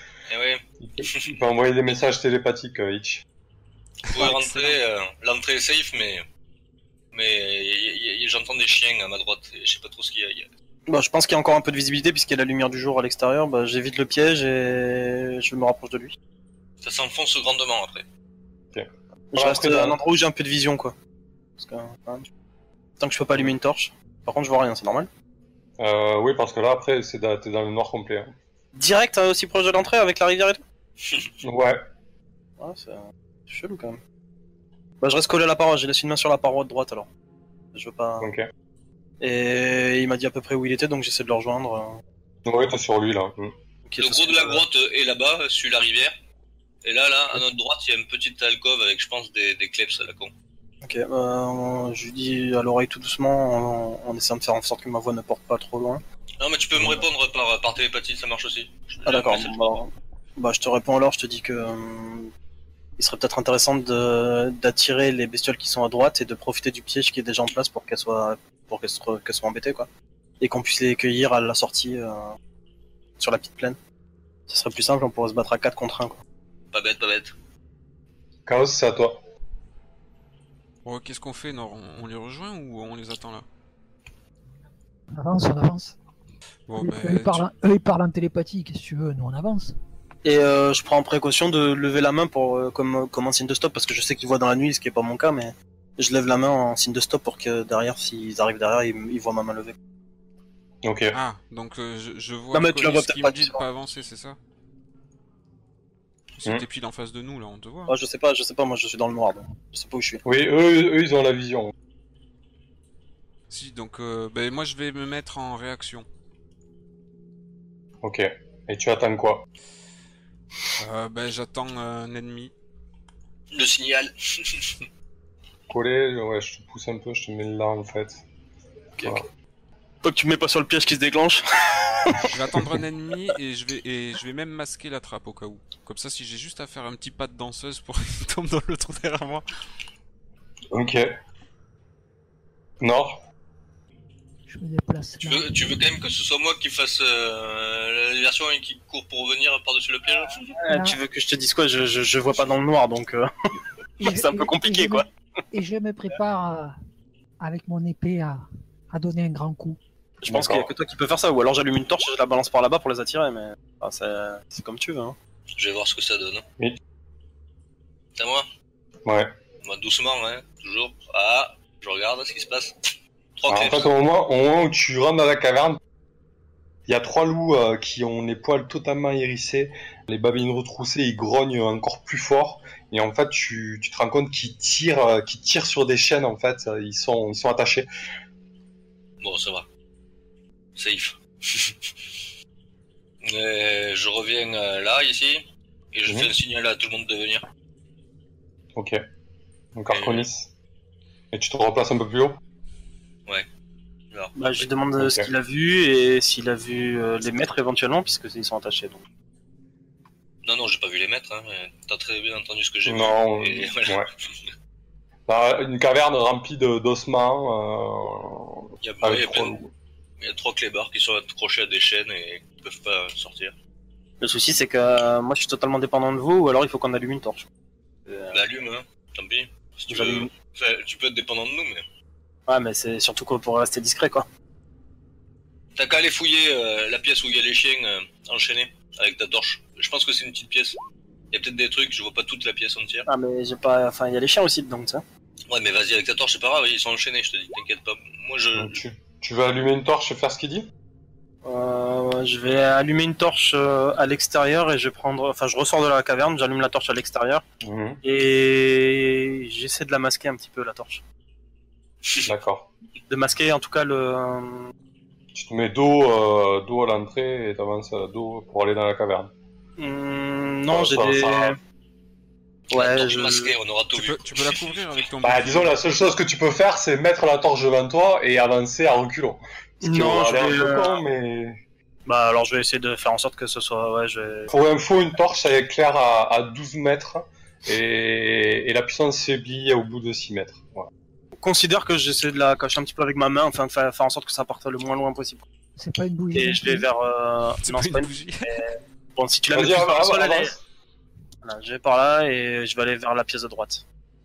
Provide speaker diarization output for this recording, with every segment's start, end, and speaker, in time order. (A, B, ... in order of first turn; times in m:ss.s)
0:00.3-0:01.3 A
0:00.8-0:03.2 B
0:04.1-0:04.8 C
0:04.1-0:06.2 A
0:07.1-0:10.5 A
0:10.9-0:16.2 D
0:16.8-0:18.0 A
0:18.7-0:20.0 B
0:19.3-0:20.9 D
0:21.6-0:22.2 D
0:23.0-0:25.1 D
0:25.8-0:28.3 B
0:28.7-0:30.6 D
0:31.0-0:31.3 A
0:31.4-0:31.8 B
0:32.6-0:34.0 D
0:35.0-0:37.1 D
0:37.7-0:38.3 D
0:38.2-0:38.5 B
0:39.2-0:42.0 D
0:42.4-0:43.5 B
0:43.9-0:44.6 D
0:44.0-0:46.2 A
0:46.8-0:50.3 A
0:50.8-0:56.0 D
0:56.4-0:59.8 A
0:56.8-0:57.0 B
0:59.0-1:02.3 D
1:03.0-1:09.9 D
1:10.4-1:12.3 D
1:13.2-1:13.8 D
1:14.5-1:16.2 D
1:16.7-1:17.3 A
1:18.4-1:19.2 B
1:20.8-1:23.4 C
1:25.1-1:26.0 E
1:26.7-1:27.4 C
1:26.8-1:29.8 E
1:30.2-1:39.8 D
1:40.8-1:41.2 B
1:41.1-1:44.4 C
1:42.5-1:43.6 D
1:46.3-1:47.9 C
1:47.9-1:50.2 D
1:50.2-1:51.7 B
1:53.5-1:56.1 C
1:58.0-1:59.4 B
2:00.8-2:02.5 C
2:03.5-2:04.9 A
2:05.7-2:08.2 B
2:09.0-2:09.2 D
2:10.0-2:12.8 D
2:12.2-2:19.4 C
2:20.7-2:21.1 B
2:22.8-2:23.2 B
2:24.5-2:25.5 E
2:25.2-2:30.4 A
2:30.6-2:33.3 D
2:30.7-2:31.0 E
2:34.0-2:35.1 D
2:34.0-2:36.8 E
2:37.4-2:39.8 E
2:40.2-2:45.2 D
2:40.2-2:40.7 B
2:45.5-2:46.4 A
2:48.2-2:48.5 A
2:49.0-2:49.3 B
2:49.6-2:53.9 A
2:53.5-2:55.8 B
2:56.9-3:07.9 B
3:09.2-3:09.7 A
3:10.8-3:12.2 A
3:13.2-3:17.4 A
3:19.8-3:20.5 B
3:19.9-3:20.2 A
3:21.3-3:22.4 B
3:24.1-3:24.7 A
3:24.4-3:29.0 D
3:25.0-3:25.3 B
3:30.4-3:34.5 A
3:32.8-3:34.1 B
3:35.3-3:39.7 B
3:38.8-3:39.5 A
3:40.2-3:43.5 A
3:44.2-3:47.5 D
3:48.1-3:48.4 D
3:48.3-3:51.8 A
3:49.9-3:50.3 D
3:52.5-3:54.3 D
3:55.8-4:00.8 A
4:01.3-4:03.1 A
4:03.1-4:05.0 D
4:05.5-4:08.8 A
4:08.5-4:10.7 B
4:11.4-4:17.4 D
4:17.6-4:18.0 B
4:18.0-4:21.0 D
4:22.2-4:22.7 B
4:23.1-4:24.7 D
4:25.3-4:29.3 B
4:29.8-4:31.6 D
4:30.7-4:31.6 B
4:32.7-4:33.5 D
4:32.7-4:34.9 A
4:33.9-4:35.8 C
4:35.2-4:41.6 B
4:39.8-4:41.0 D
4:42.0-4:44.5 D
4:44.5-4:50.9 B
4:51.4-4:55.4 D
4:55.8-4:56.9 E
4:56.3-5:00.5 D
4:57.6-4:58.6 C
4:59.5-5:00.6 B
5:01.4-5:03.8 D